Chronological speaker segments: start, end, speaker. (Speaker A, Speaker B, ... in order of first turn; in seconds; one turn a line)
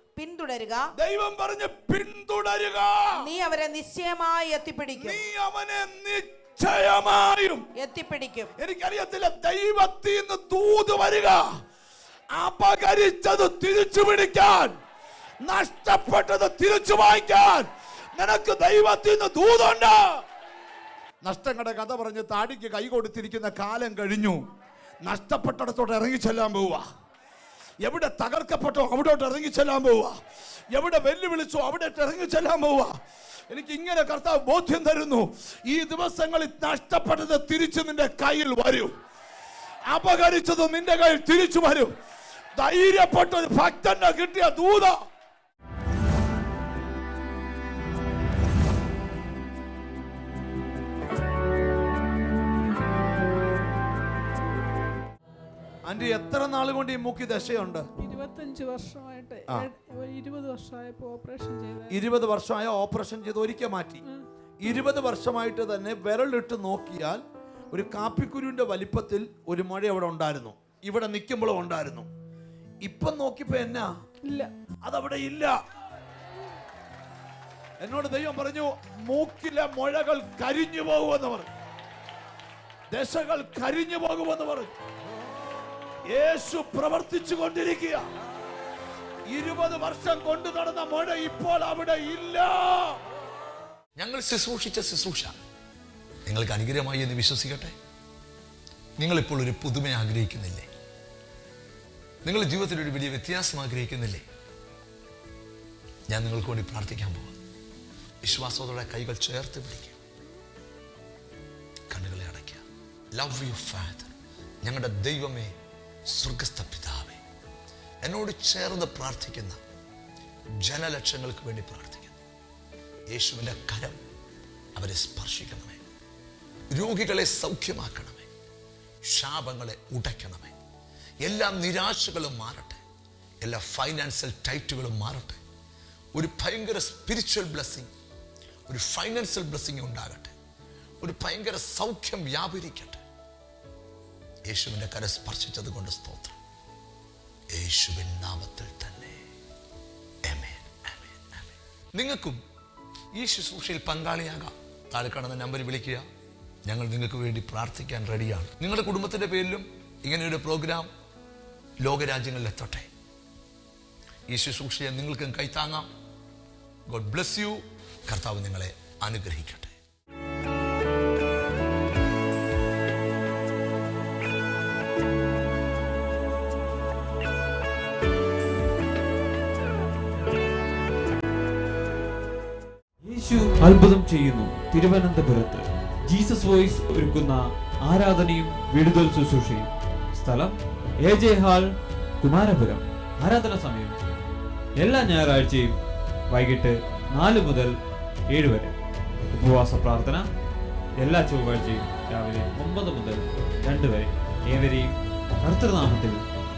Speaker A: 0.1-0.9
Speaker B: 0.9-3.2
Speaker A: 3.2-5.2
Speaker B: 5.0-7.7
Speaker A: 7.8-8.5
Speaker B: 8.6-11.6
Speaker B: 12.3-14.8
Speaker B: 15.4-20.2
Speaker B: 21.2-24.4
Speaker B: 25.0-26.8
Speaker B: 27.8-30.2
Speaker B: 30.7-33.0
Speaker B: 33.5-38.9
Speaker B: 39.9-41.9
Speaker B: 42.5-45.0
Speaker B: 55.9-57.9
Speaker C: 58.0-62.0
Speaker B: 61.9-64.0
Speaker B: 64.6-72.1
Speaker B: 72.8-73.9
Speaker C: 74.2-74.5
Speaker B: 74.8-75.5
Speaker B: 77.8-81.5
Speaker B: 82.9-84.7
Speaker B: 86.1-88.1
Speaker B: 89.3-93.0
Speaker D: 94.0-95.3
Speaker D: 96.2-97.8
Speaker D: 99.0-100.7
Speaker D: 102.2-104.2
Speaker D: 106.1-107.4
Speaker D: 108.2-110.0
Speaker D: 111.9-115.5
Speaker D: 116.1-117.2
Speaker D: 118.0-119.6
Speaker D: 120.6-122.2
Speaker D: 123.1-124.0
Speaker D: 124.8-125.8
Speaker D: 126.7-128.3
Speaker D: 129.0-130.6
Speaker D: 131.2-132.8
Speaker D: 133.4-135.4
Speaker D: 136.1-137.9
Speaker D: 138.7-140.3
Speaker D: 141.0-143.0
Speaker D: 144.5-146.4
Speaker D: 147.5-149.2
Speaker D: 150.2-152.4
Speaker D: 153.1-156.1
Speaker D: 156.7-160.9
Speaker D: 161.8-162.9
Speaker D: 164.3-165.9
Speaker D: 166.9-169.8
Speaker E: 183.0-194.0
Speaker E: 194.8-195.8
Speaker E: 196.3-197.7
Speaker E: 198.3-198.7
Speaker E: 199.3-200.3
Speaker E: 201.0-206.2